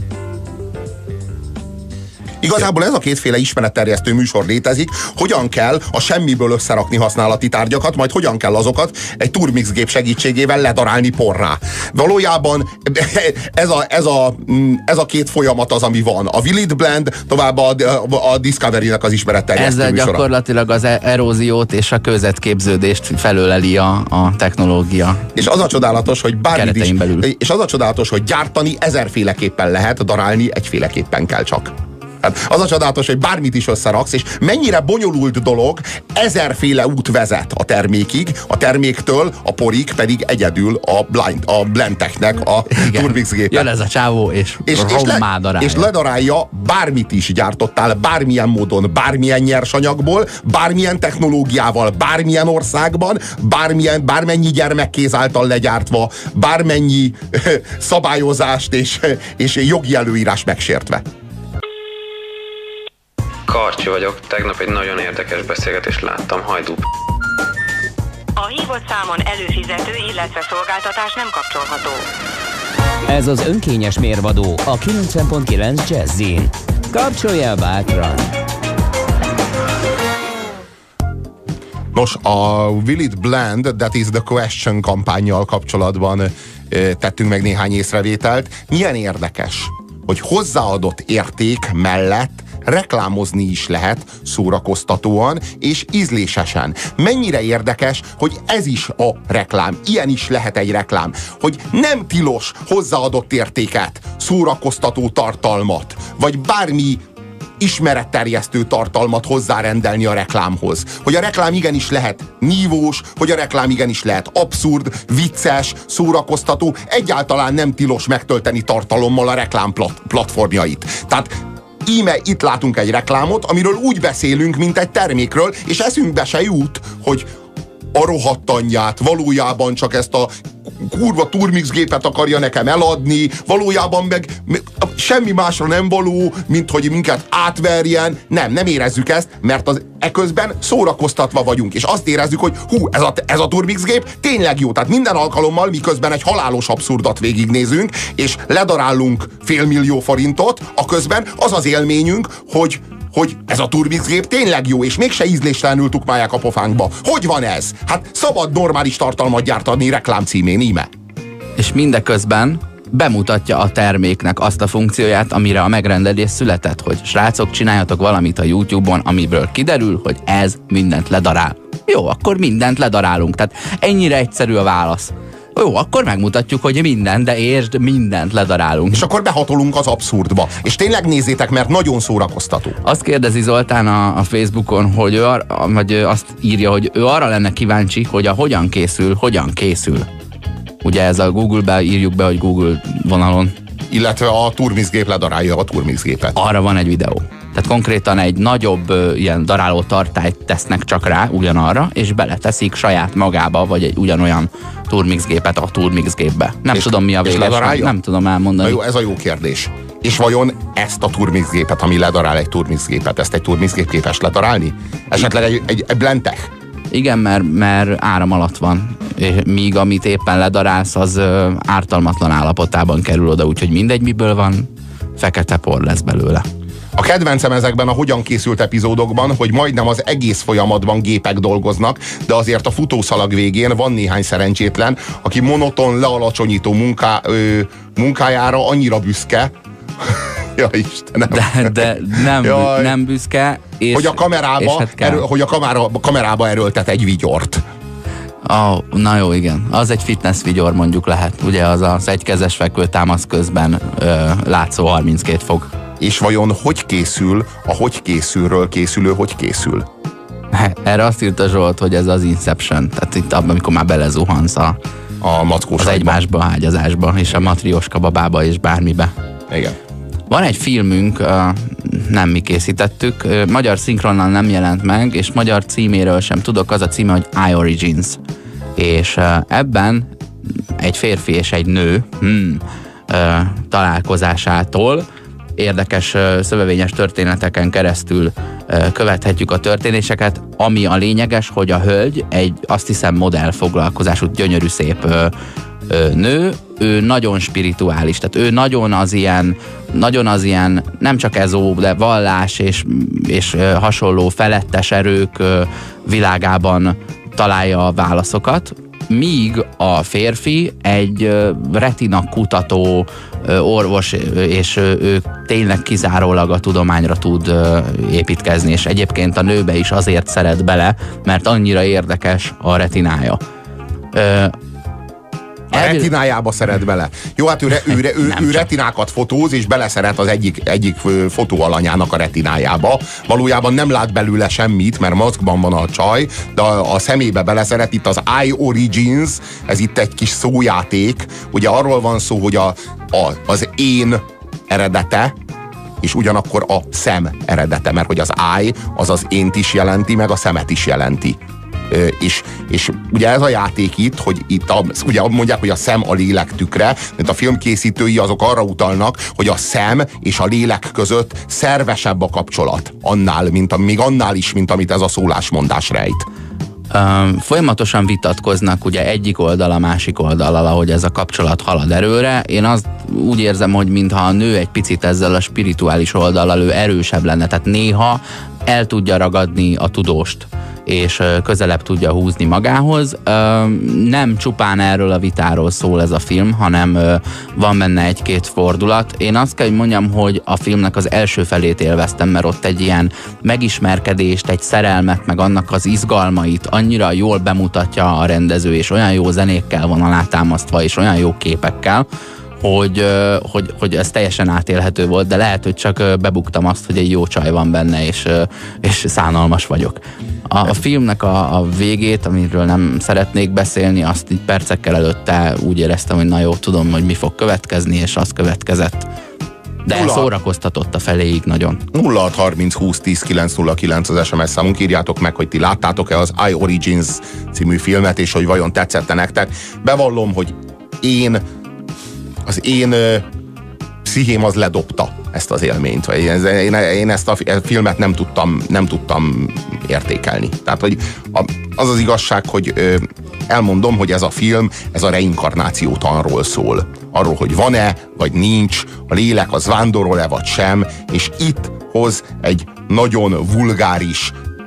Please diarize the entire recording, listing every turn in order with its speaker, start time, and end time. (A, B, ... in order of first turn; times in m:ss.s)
0:02.4-0:20.2 A
0:19.6-0:25.3 B
0:25.4-0:43.7 A
0:26.5-0:27.3 B
0:42.7-0:45.9 B
0:44.7-1:01.0 A
1:03.5-1:06.9 C
1:08.4-1:12.1 D
1:13.1-1:18.3 E
1:21.9-1:47.0 A
1:47.6-2:07.3 A
2:07.9-2:40.9 A
2:41.6-2:59.1 B
2:58.9-3:02.8 A
3:02.8-3:10.1 B
3:10.8-3:13.6 B
3:13.9-3:16.4 A
3:16.4-3:28.8 B
3:26.7-3:28.0 A
3:28.6-3:36.5 A
3:36.9-3:46.5 B
3:47.0-4:03.0 A
4:01.3-4:05.2 B
4:03.9-4:07.6 A
4:08.5-4:15.7 B
4:16.0-4:19.9 A
4:20.5-4:24.8 B
4:25.2-4:26.2 A
4:25.8-4:29.1 B
4:29.5-4:29.8 A
4:30.3-4:38.2 B
4:38.8-4:45.1 B
4:45.6-4:55.3 B
4:55.9-5:23.4 B
5:24.1-5:24.6 B
5:25.7-5:45.4 A
5:25.7-5:26.1 B
5:28.2-5:28.7 B
5:46.0-6:06.3 A
6:06.9-6:42.1 B
6:42.6-6:59.1 B
6:59.8-7:01.8 B
6:59.9-7:00.3 A
7:01.9-7:11.4 A
7:12.5-7:13.3 A
7:14.0-7:34.4 A